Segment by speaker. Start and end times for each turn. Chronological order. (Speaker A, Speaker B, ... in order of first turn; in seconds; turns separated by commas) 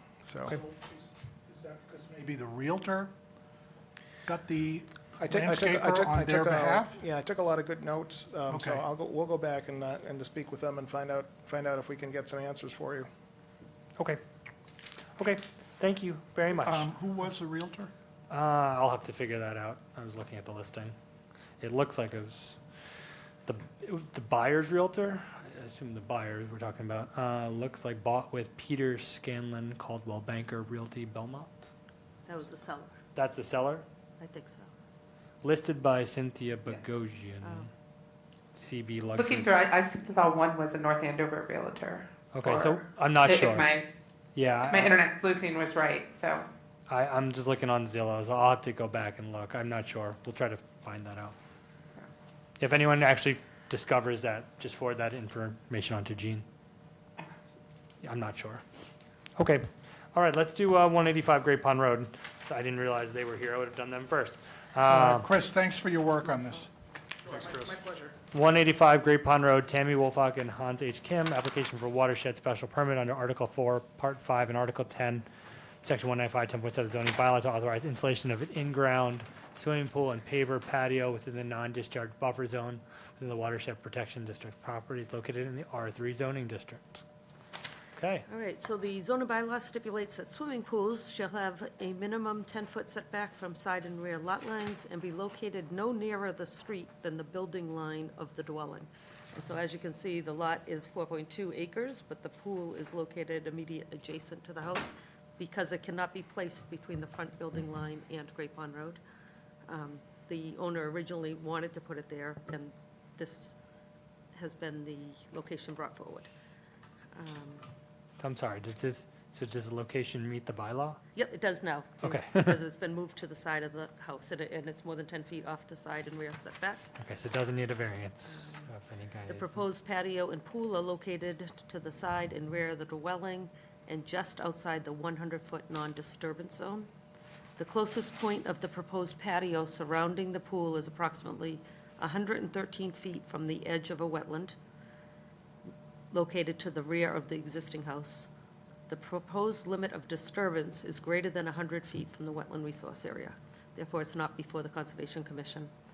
Speaker A: 0.2-0.6, Speaker B: 0.4-3.1, Speaker B: 4.2-7.0, Speaker A: 5.2-13.1, Speaker B: 8.5-8.8, Speaker C: 15.2-16.9, Speaker B: 16.6-17.9, Speaker C: 18.3-20.9, Speaker C: 21.6-22.6, Speaker C: 23.4-31.7, Speaker D: 32.2-33.0, Speaker C: 33.1-33.8, Speaker D: 34.2-34.7, Speaker C: 35.4-37.7, Speaker C: 38.5-39.5, Speaker E: 39.1-43.9, Speaker C: 42.3-43.7, Speaker C: 44.3-45.0, Speaker E: 44.7-46.5, Speaker C: 46.9-51.3, Speaker C: 52.6-56.4, Speaker C: 58.0-58.6, Speaker C: 59.4-65.3, Speaker B: 64.8-66.7, Speaker B: 67.3-67.6, Speaker C: 68.3-75.2, Speaker C: 75.8-87.0, Speaker C: 88.0-88.2, Speaker D: 88.3-109.0, Speaker D: 109.7-113.5, Speaker D: 114.3-116.3, Speaker D: 117.1-117.7, Speaker C: 118.2-121.0, Speaker D: 121.1-126.8, Speaker C: 122.0-122.6, Speaker C: 127.0-129.6, Speaker D: 128.3-128.7, Speaker D: 129.2-136.9, Speaker D: 137.6-144.6, Speaker D: 146.1-148.3, Speaker D: 148.9-155.7